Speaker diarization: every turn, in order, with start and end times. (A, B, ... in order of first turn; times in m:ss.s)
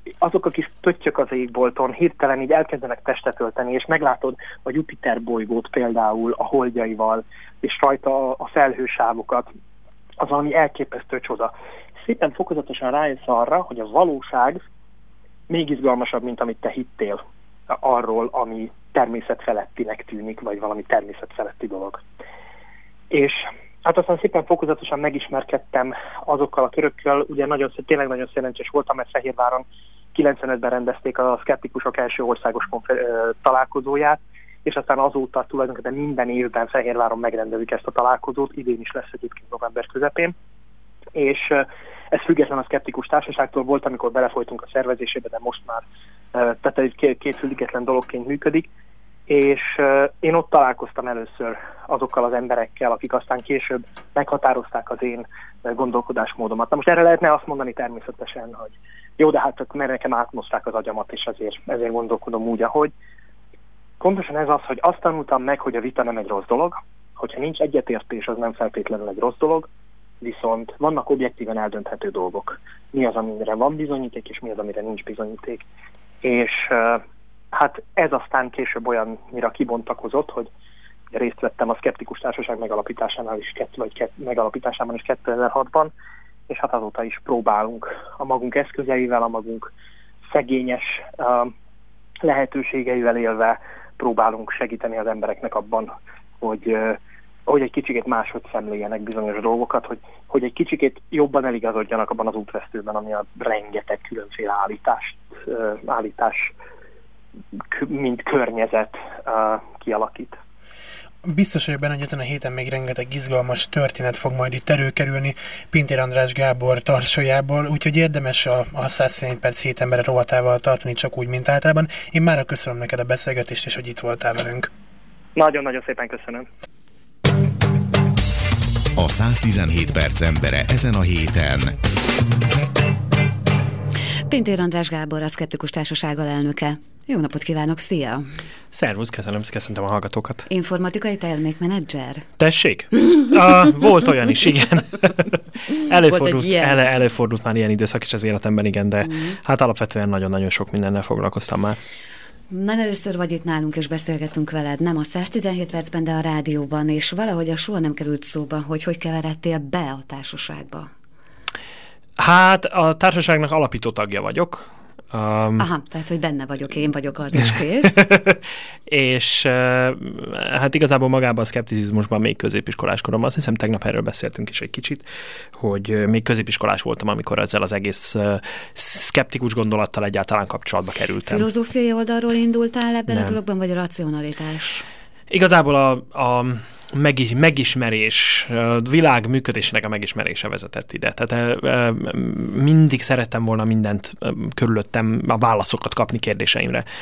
0:00.2-0:09.5 A
0:10.2-0:14.6 A
0:15.5-0:22.0 A
0:23.1-0:40.4 A
0:41.2-0:48.7 A
0:49.3-1:02.9 A
1:04.0-1:09.7 A
1:10.2-1:15.6 A
1:16.2-1:20.5 A
1:21.1-1:25.9 A
1:26.5-1:29.7 A
1:30.3-1:31.5 A
1:32.2-1:46.5 A
1:47.7-1:50.4 A
1:51.2-2:04.7 B
2:05.4-2:06.5 A
2:09.0-2:11.8 C
2:14.3-2:18.3 D
2:18.7-2:20.5 E
2:20.5-2:22.3 D
2:22.4-2:31.8 E
2:25.9-2:26.9 D
2:29.0-2:29.4 D
2:32.5-2:40.9 D
2:42.2-2:45.7 E
2:45.6-2:48.0 D
2:48.0-3:01.5 E
3:01.2-3:04.8 D
3:03.1-3:03.4 E
3:05.3-3:16.8 E